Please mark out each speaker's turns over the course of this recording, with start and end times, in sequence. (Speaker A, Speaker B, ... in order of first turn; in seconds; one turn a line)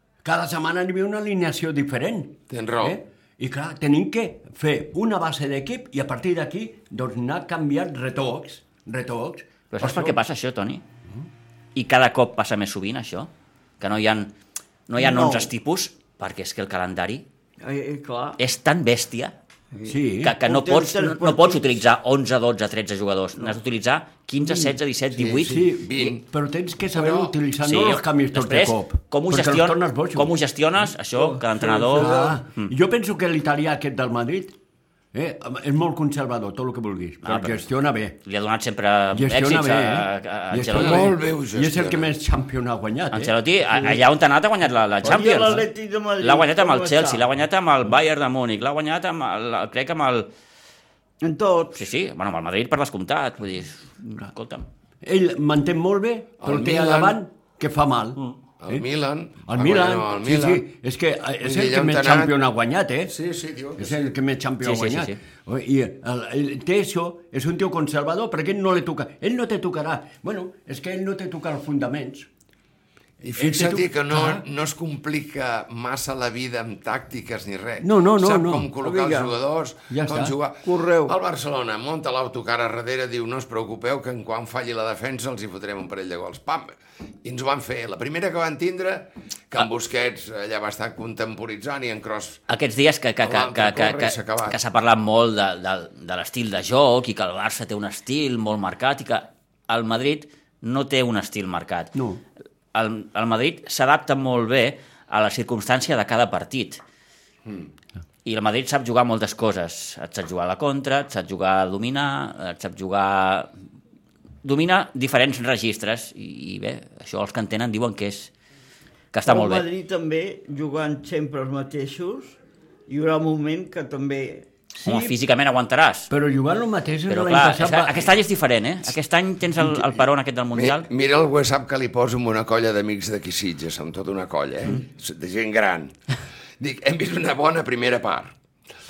Speaker A: 0.2-10.2
Speaker B: 2.5-3.0
Speaker C: 9.7-10.8
Speaker C: 11.7-14.3
Speaker C: 14.9-17.2
Speaker D: 15.0-15.5
Speaker D: 17.6-18.4
Speaker C: 18.4-19.3
Speaker D: 19.7-21.8
Speaker A: 19.8-20.4
Speaker C: 20.2-25.6
Speaker D: 24.4-24.7
Speaker B: 25.1-26.2
Speaker A: 25.4-30.3
Speaker B: 26.9-27.3
Speaker C: 27.6-32.7
Speaker D: 31.1-32.4
Speaker A: 31.9-34.5
Speaker A: 35.1-38.2
Speaker C: 37.2-37.6
Speaker C: 38.2-41.1
Speaker A: 39.1-43.3
Speaker B: 40.7-42.1
Speaker C: 43.1-45.6
Speaker D: 45.0-47.2
Speaker C: 46.2-50.3
Speaker D: 51.2-51.8
Speaker C: 51.8-54.7
Speaker A: 55.0-58.8
Speaker B: 56.4-57.2
Speaker B: 58.6-60.6
Speaker A: 59.5-63.1
Speaker B: 61.4-62.3
Speaker B: 63.1-64.1
Speaker A: 63.8-72.3
Speaker C: 64.6-65.2
Speaker B: 73.2-92.4
Speaker A: 73.4-74.4
Speaker A: 77.8-78.7
Speaker D: 78.8-79.3
Speaker A: 79.9-80.3
Speaker D: 80.6-81.1
Speaker C: 92.5-101.9
Speaker B: 93.2-94.6
Speaker A: 101.9-102.2
Speaker C: 102.7-106.8
Speaker C: 108.2-113.5
Speaker C: 114.4-118.3
Speaker C: 119.1-119.6
Speaker D: 119.2-122.3
Speaker D: 122.9-124.5
Speaker C: 124.8-126.1
Speaker A: 126.1-128.1
Speaker C: 127.1-130.9
Speaker B: 130.5-135.9
Speaker B: 136.6-138.3